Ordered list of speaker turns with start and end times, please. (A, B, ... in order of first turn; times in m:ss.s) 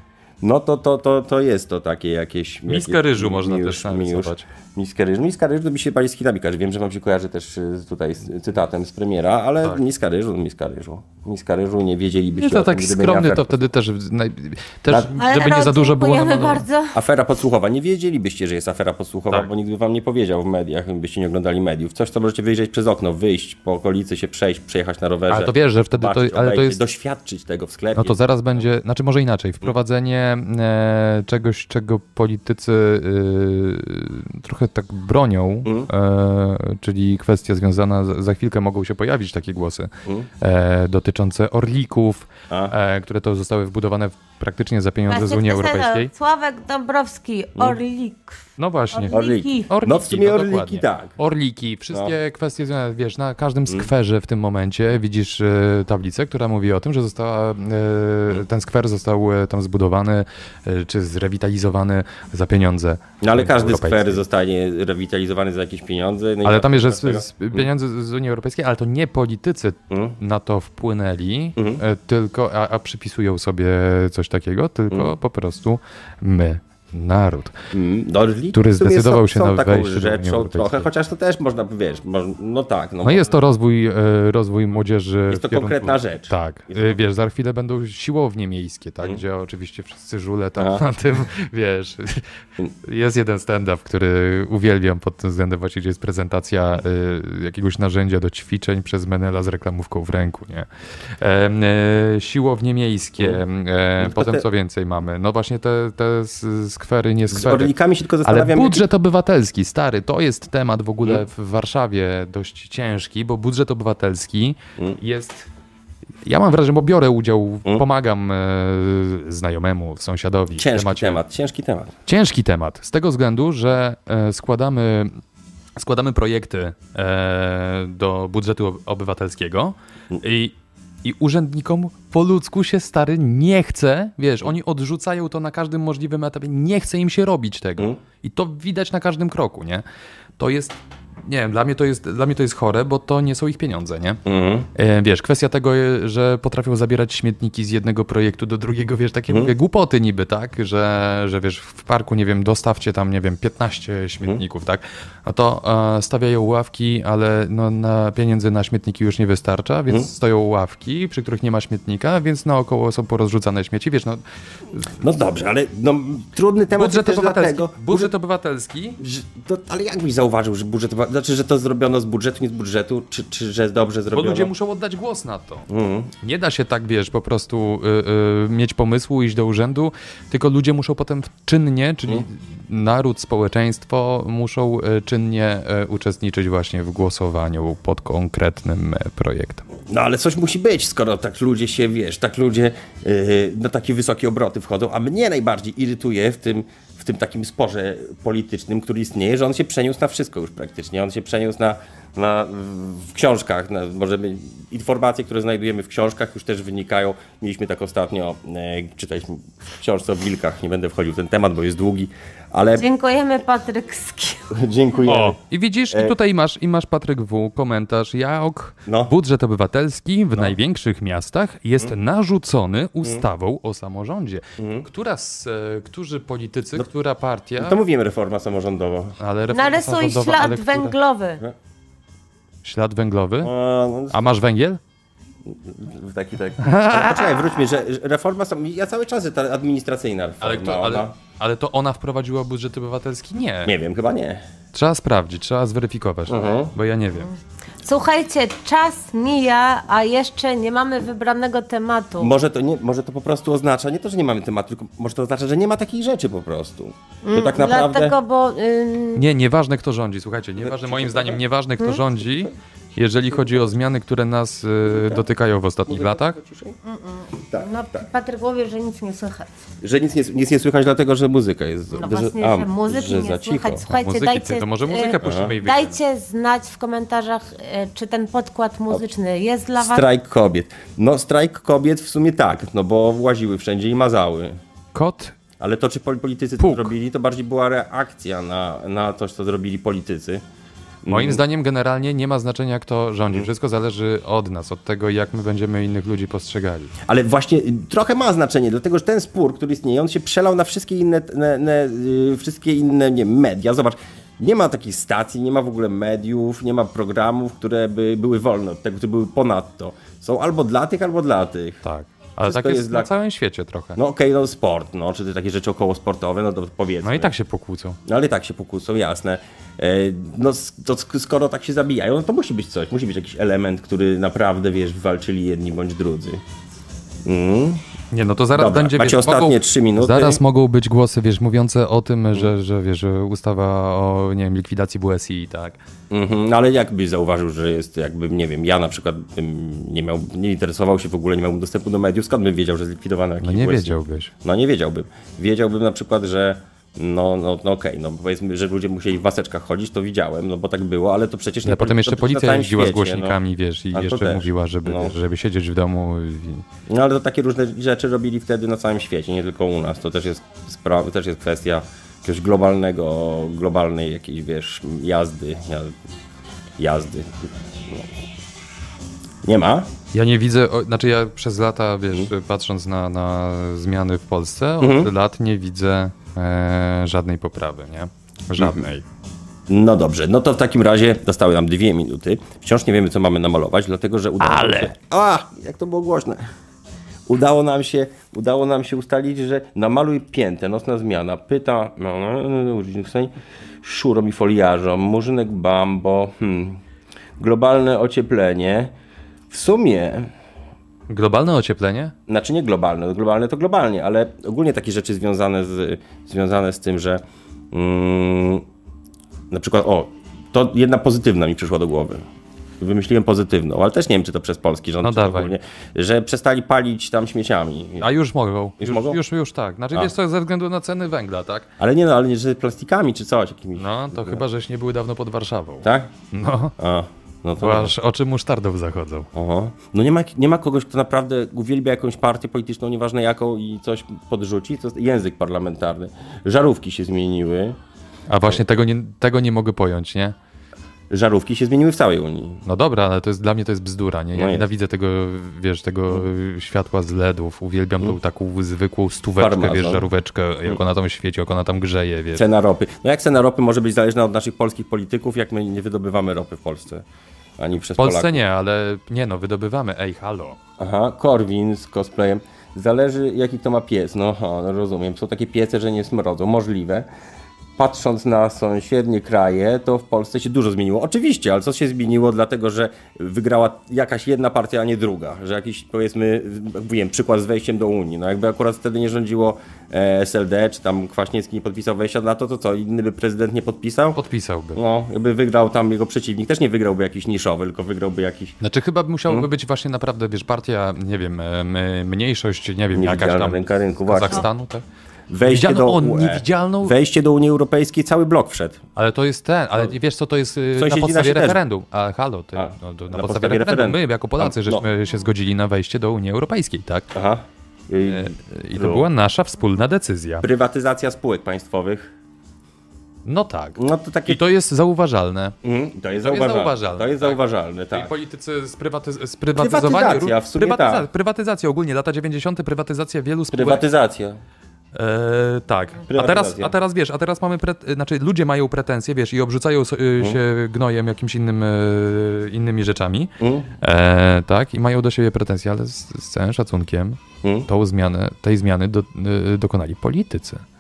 0:00.4-0:13.6 A
0:02.7-0:04.5 B
0:12.4-0:16.6 B
0:15.1-0:17.0 C
0:16.9-0:28.6 A
0:25.3-0:26.8 B
0:28.0-0:46.1 B
0:35.6-0:35.9 A
0:40.0-0:40.3 A
0:42.5-0:42.7 A
0:45.1-0:49.7 C
0:48.6-1:04.2 B
0:49.1-0:51.1 A
1:03.2-1:07.7 A
1:06.4-1:17.5 B
1:09.9-1:10.2 A
1:11.6-1:11.8 A
1:17.7-1:23.4 A
1:18.5-1:20.9 B
1:23.0-1:32.2 B
1:25.3-1:27.0 A
1:30.6-1:30.8 A
1:32.8-1:40.7 B
1:41.2-1:55.5 B
1:44.0-1:44.4 A
1:47.3-1:48.9 A
1:56.2-2:01.2 B
2:00.6-2:01.9 A
2:02.1-2:05.2 B
2:05.8-2:19.8 B
2:20.4-2:24.2 B
2:24.2-2:24.7 A
2:24.7-2:44.2 B
2:29.3-2:29.5 A
2:45.0-2:48.1 A
2:46.7-2:49.0 B
2:49.0-2:54.5 A
2:54.1-2:55.7 B
2:55.7-2:56.1 A
2:56.2-3:09.7 B
3:09.9-3:32.8 A
3:32.8-3:34.5 C
3:34.5-3:35.4 A
3:35.0-3:47.8 B
3:38.8-3:39.1 A
3:44.6-3:44.9 A
3:47.6-3:49.2 A
3:49.2-3:50.9 B
3:49.5-3:51.4 C
3:52.6-3:53.5 B
3:53.4-3:54.2 A
3:54.1-3:54.8 B
3:55.4-4:01.1 A
3:56.6-3:57.6 B
4:00.4-4:03.7 B
4:03.6-4:04.4 A
4:04.7-4:07.3 B
4:06.3-4:06.7 A
4:07.2-4:12.3 C
4:12.2-4:18.2 A
4:17.2-4:19.2 C
4:19.2-4:26.4 B
4:20.6-4:21.4 A
4:24.8-4:25.2 A
4:25.9-4:26.8 A
4:26.8-4:29.5 C
4:27.5-4:28.0 A
4:29.8-4:33.8 A
4:31.9-4:40.0 C
4:33.9-4:36.0 B
4:35.2-4:35.6 A
4:39.8-4:44.6 A
4:44.9-4:45.4 B
4:45.6-4:50.4 A
4:46.6-4:46.9 B
4:51.0-4:51.4 A
4:51.1-4:56.9 B
4:57.0-5:11.8 A
5:11.8-5:14.0 B
5:12.4-5:13.1 A
5:14.0-5:17.3 A
5:17.0-5:18.0 B
5:18.0-5:26.4 A
5:27.2-5:27.8 A
5:28.1-5:35.8 B
5:28.5-5:30.4 A
5:36.1-5:53.4 A
5:43.4-5:44.3 B
5:51.6-5:56.6 B
5:53.9-5:55.1 A
5:56.9-6:05.9 A
6:06.8-6:08.1 A
6:09.4-6:09.9 A
6:10.1-6:19.0 B
6:14.8-6:15.1 A
6:18.6-6:18.8 A
6:19.7-6:26.4 A
6:24.4-6:24.9 B
6:27.3-6:36.8 A
6:37.4-6:38.9 A
6:39.5-6:40.3 A
6:41.1-6:42.1 B
6:42.3-6:48.6 A
6:49.5-6:52.2 A
6:52.8-6:58.1 A
6:55.0-6:55.5 B
6:58.0-7:01.7 B
6:58.8-6:59.2 A
7:01.8-7:04.4 A
7:03.8-7:06.7 B
7:05.8-7:06.1 A
7:06.8-7:07.9 A
7:07.6-7:09.3 B
7:09.3-7:17.8 A
7:18.3-7:20.4 B
7:21.1-7:22.6 A
7:22.6-7:32.4 B
7:24.3-7:24.7 A
7:29.4-7:30.1 A
7:32.3-7:37.0 A
7:37.6-7:38.4 A
7:38.0-7:40.6 B
7:40.8-7:47.1 A
7:47.8-8:04.2 A
8:04.1-8:04.8 B
8:04.7-8:08.6 A
8:08.6-8:14.8 B
8:12.9-8:14.5 A
8:15.3-8:18.8 A
8:15.4-8:16.9 B
8:19.0-8:27.1 B
8:20.8-8:21.6 A
8:22.5-8:24.8 A
8:27.1-8:29.0 A
8:28.0-8:30.4 B
8:30.4-8:32.1 A
8:33.2-8:35.6 B
8:33.8-8:34.4 A
8:35.6-8:38.1 A
8:36.2-8:37.4 B
8:37.9-8:43.8 B
8:39.6-8:41.1 A
8:43.5-8:44.4 A
8:44.9-9:00.6 B
8:46.1-8:46.7 A
8:53.4-8:53.7 A
8:57.4-8:57.7 A